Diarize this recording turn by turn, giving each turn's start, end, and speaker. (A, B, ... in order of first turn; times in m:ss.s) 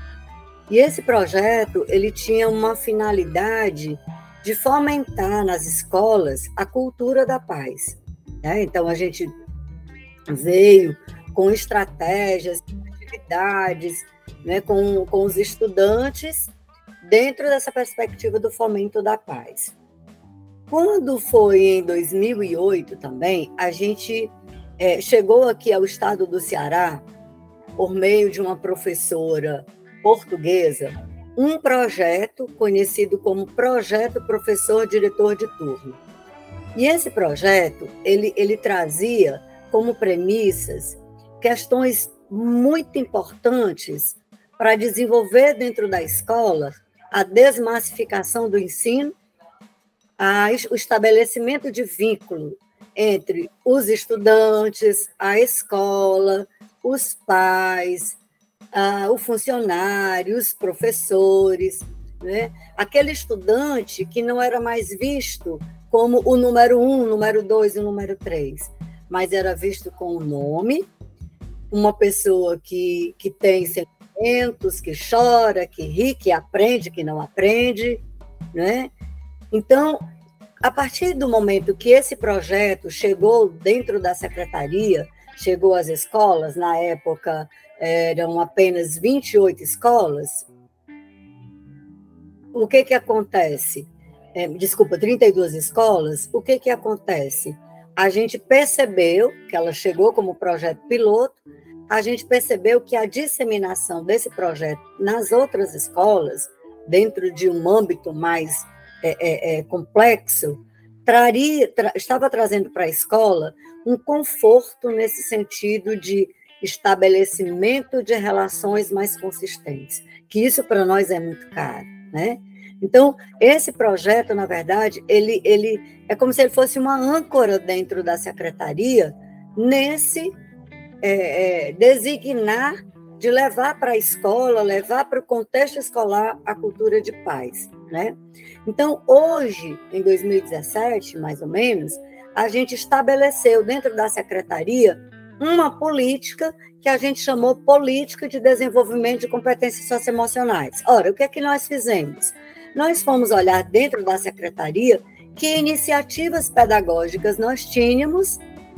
0:00.7-0:09.3 A
0:10.3-0:16.5 A
0:17.0-0:19.7 A
0:20.7-0:27.0 A
0:27.8-0:36.0 A
0:36.7-0:49.1 A
0:50.2-0:58.2 A
0:58.7-1:10.9 A
1:11.7-1:18.9 A
1:19.5-1:20.0 A
1:20.6-1:30.5 A
1:32.5-2:10.4 A
2:11.0-2:38.4 A